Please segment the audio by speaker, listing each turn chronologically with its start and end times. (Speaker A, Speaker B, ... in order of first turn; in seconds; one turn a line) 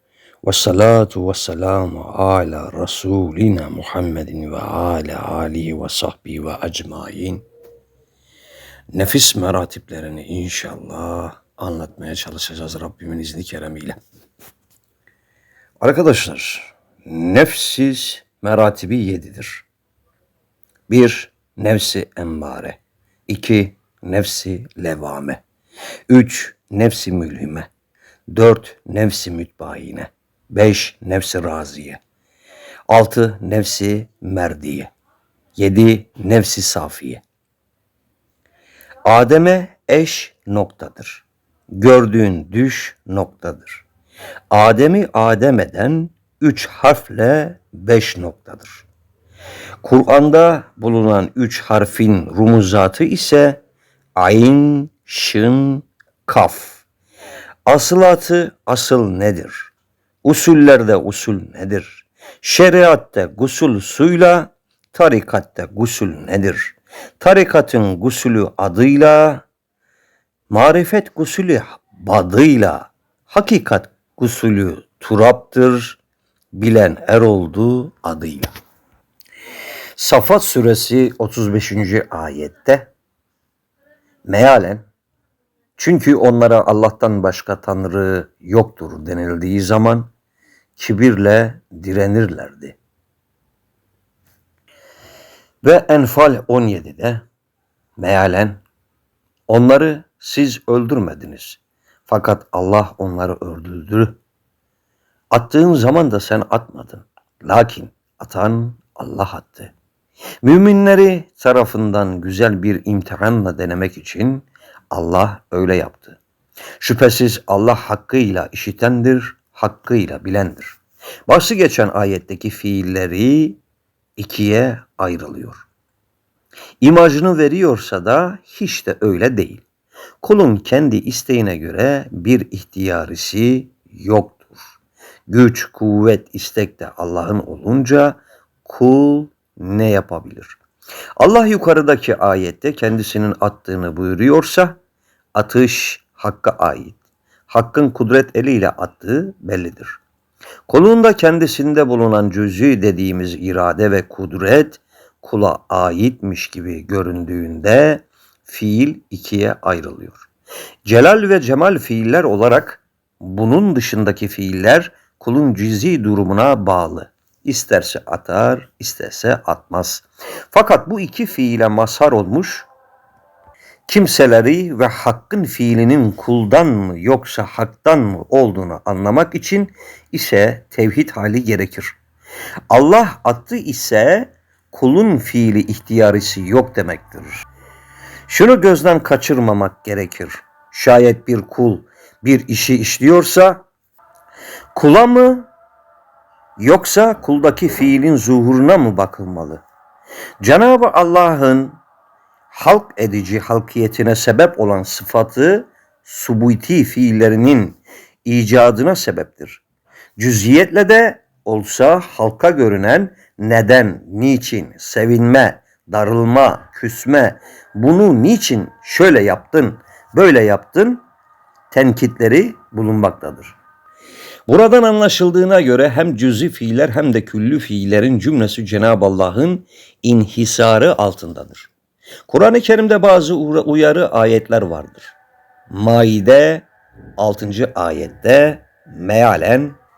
Speaker A: 0.4-7.4
Speaker A: 8.9-14.0
Speaker A: 15.8-19.6
Speaker A: 20.9-25.4
Speaker A: 26.1-27.7
Speaker A: 28.3-32.0
Speaker A: 32.9-34.9
Speaker A: 35.6-37.2
Speaker A: 39.0-43.8
Speaker A: 44.5-48.9
Speaker A: 49.8-53.6
Speaker A: 54.1-56.8
Speaker A: 57.6-59.7
Speaker A: 60.2-69.4
Speaker A: 70.5-76.0
Speaker A: 76.5-78.5
Speaker A: 80.0-82.9
Speaker A: 84.2-84.8
Speaker A: 85.8-90.1
Speaker A: 90.8-92.8
Speaker A: 95.6-97.2
Speaker A: 98.0-98.6
Speaker A: 99.5-104.2
Speaker A: 105.3-109.7
Speaker A: 110.4-116.2
Speaker A: 116.8-123.6
Speaker A: 124.2-125.6
Speaker A: 126.8-129.6
Speaker A: 130.2-134.7
Speaker A: 135.3-140.6
Speaker A: 141.2-144.8
Speaker A: 145.3-147.0
Speaker A: 147.5-150.0
Speaker A: 150.7-160.3
Speaker A: 160.8-172.7
Speaker A: 173.9-181.9
Speaker A: 182.7-187.4
Speaker A: 188.3-193.6
Speaker A: 194.7-195.5
Speaker A: 196.6-199.6
Speaker A: 200.4-201.8
Speaker A: 202.5-209.6
Speaker A: 210.2-221.0
Speaker A: 221.7-223.6
Speaker A: 224.5-231.7
Speaker A: 232.3-235.2
Speaker A: 235.7-236.7
Speaker A: 237.2-239.8